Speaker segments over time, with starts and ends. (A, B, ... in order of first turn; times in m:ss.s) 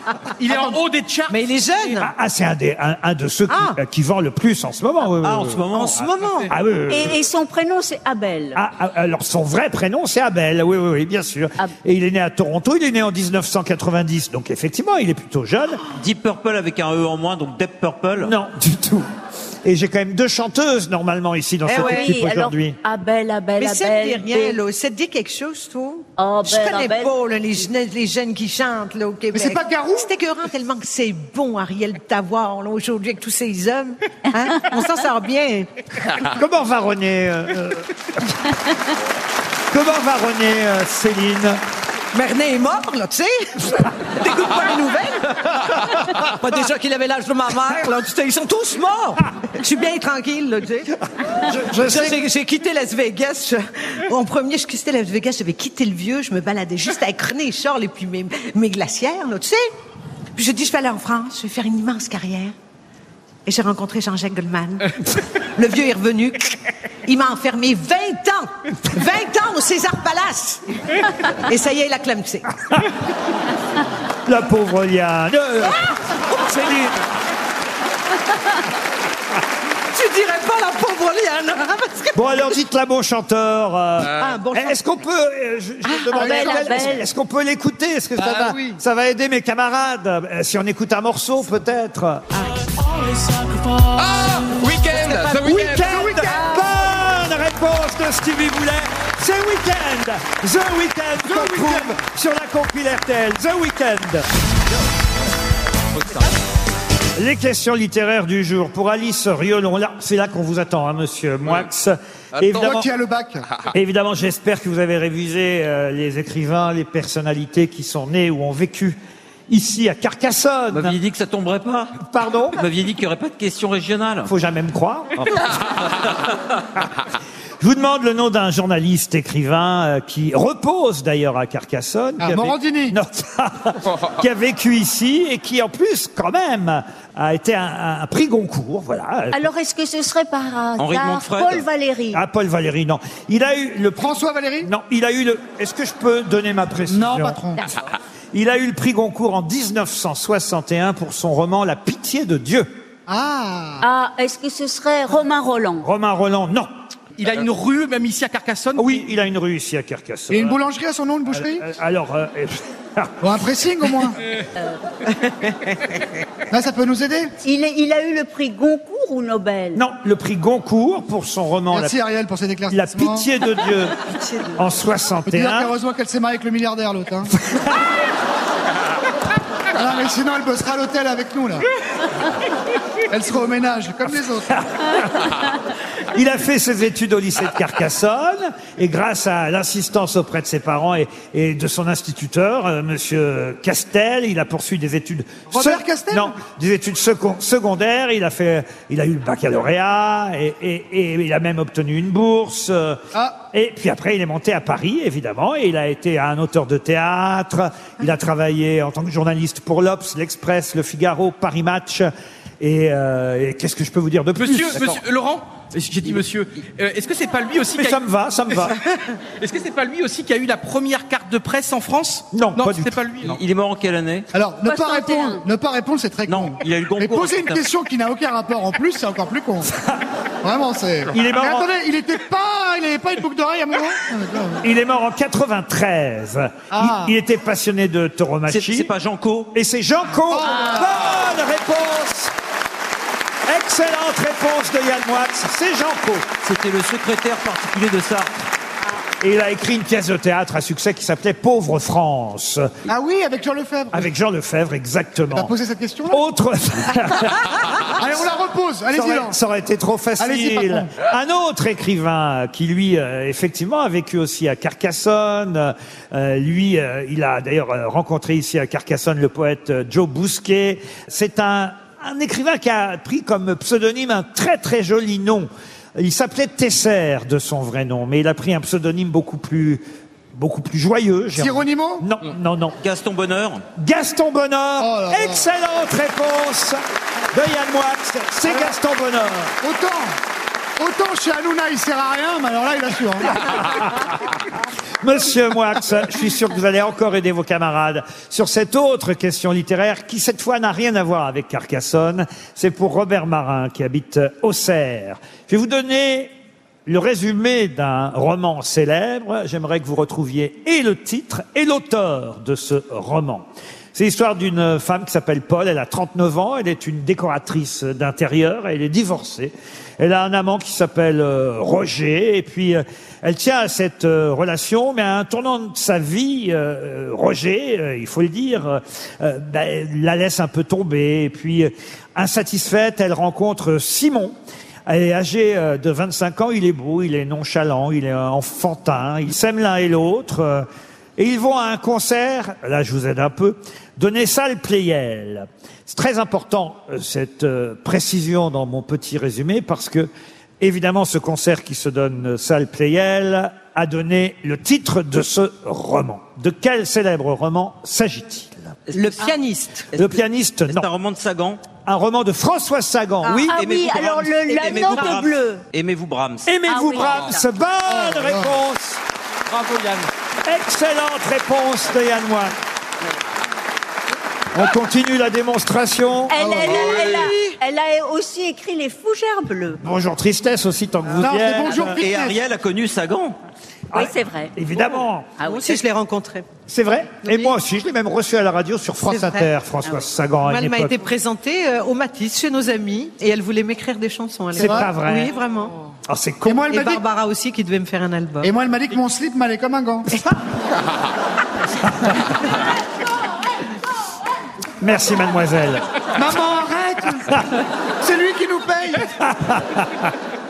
0:00.4-0:01.9 A
0:01.3-0:02.1 B
0:02.0-0:05.6 C
0:03.5-0:03.8 B
0:05.2-0:06.1 D
0:05.7-0:06.5 B
0:06.5-0:07.2 C
0:06.9-0:08.6 E
0:08.6-0:15.8 C
0:15.9-0:18.3 D
0:18.2-0:19.1 C
0:19.6-0:22.8 C
0:21.6-0:22.1 B
0:21.7-0:24.6 E
0:23.6-0:35.7 B
0:26.2-0:27.1 E
0:29.3-0:30.1 F
0:36.3-0:38.3 C
0:39.7-0:41.6 C
0:42.1-0:50.9 B
0:51.4-0:52.2 C
0:51.5-0:59.6 B
1:00.4-1:02.5 B
1:03.4-1:04.9 B
1:05.6-1:10.6 B
1:11.5-1:12.5 B
1:14.2-1:15.8 C
1:16.4-1:16.9 C
1:19.9-1:22.6 B
1:22.1-1:32.3 C
1:24.1-1:24.9 B
1:25.8-1:26.9 B
1:26.1-1:27.0 E
1:28.5-1:28.8 B
1:33.9-1:36.0 G
1:35.4-1:44.2 C
1:35.8-1:36.5 F
1:41.2-1:42.0 F
1:47.2-1:52.9 C
1:52.4-1:52.7 G
1:52.6-1:53.4 F
1:53.7-1:59.0 C
1:59.5-2:01.0 C
2:00.7-2:02.0 D
2:02.0-2:02.6 C
2:02.6-2:04.3 D
2:04.2-2:05.1 C
2:05.2-2:05.9 D
2:07.6-2:19.4 C
2:12.2-2:13.0 F
2:19.3-2:22.2 E
2:20.8-2:21.6 D
2:22.1-2:27.4 C
2:24.0-2:24.7 F
2:26.9-2:27.6 F
2:28.3-2:32.7 C
2:33.1-2:33.8 F
2:33.8-2:35.9 E
2:35.8-2:36.7 C
2:37.2-2:39.1 A
2:38.8-2:40.6 C
2:40.3-2:41.7 F
2:41.3-2:43.3 C
2:43.2-2:44.2 F
2:46.5-2:47.3 F
2:47.4-2:49.8 E
2:49.7-2:52.0 C
2:51.7-2:53.3 F
2:52.7-2:54.0 C
2:54.1-2:54.6 B
2:54.6-2:55.7 C
2:55.3-2:57.3 F
2:59.8-3:01.6 F
3:03.1-3:04.6 F
3:04.6-3:05.4 C
3:06.1-3:23.0 C
3:15.5-3:16.4 F
3:23.1-3:23.4 F
3:23.5-3:35.0 C
3:34.4-3:38.0 A
3:37.7-3:38.8 C
3:39.4-3:43.4 A
3:42.3-3:42.9 C
3:43.2-3:44.3 D
3:44.3-3:49.7 F
3:44.6-3:45.4 E
3:46.2-3:47.7 D
3:49.7-3:50.0 C
3:50.4-3:54.6 F
3:51.1-3:51.7 C
3:54.6-3:58.9 C
3:56.7-3:57.1 F
3:58.5-3:59.5 D
3:59.5-4:02.3 C
4:00.3-4:01.1 F
4:03.5-4:06.3 C
4:06.4-4:08.3 D
4:09.2-4:12.7 C
4:12.9-4:14.1 F
4:13.9-4:15.5 C
4:15.3-4:16.2 F
4:16.1-4:17.5 C
4:18.0-4:19.4 F
4:18.9-4:39.8 C
4:20.2-4:20.9 F
4:40.3-4:42.8 C
4:41.4-4:42.1 F
4:42.8-4:43.6 D
4:43.8-4:46.8 C
4:44.8-4:45.4 F
4:47.3-4:49.6 C
4:49.6-4:50.2 F
4:50.8-4:53.5 F
4:55.0-5:06.3 C
5:06.8-5:34.4 C
5:34.9-5:58.8 C
5:58.9-5:59.4 D
5:58.9-5:59.8 B
5:59.9-6:00.2 D
5:59.9-6:00.9 C
6:00.7-6:01.6 D
6:01.8-6:03.5 C
6:03.5-6:05.6 E
6:03.5-6:06.5 D
6:06.5-6:09.0 C
6:06.7-6:07.4 E
6:07.9-6:08.5 F
6:09.5-6:10.0 A
6:10.4-6:12.5 C
6:14.5-6:16.8 C
6:16.3-6:19.8 E
6:16.7-6:17.3 G
6:17.2-6:17.6 B
6:19.8-6:22.0 C
6:21.2-6:22.4 F
6:21.8-6:23.4 D
6:23.9-6:25.3 C
6:23.9-6:24.5 E
6:25.4-6:25.8 E
6:25.4-6:26.5 B
6:26.7-6:31.0 C
6:27.2-6:27.5 B
6:29.1-6:29.5 B
6:30.4-6:35.9 B
6:34.5-6:35.3 C
6:34.6-6:34.9 F
6:36.1-6:36.8 C
6:36.4-6:37.0 F
6:36.7-6:38.5 B
6:38.4-6:40.2 F
6:44.8-6:45.8 C
6:46.2-6:47.4 F
6:48.0-6:49.1 F
6:49.2-6:50.1 C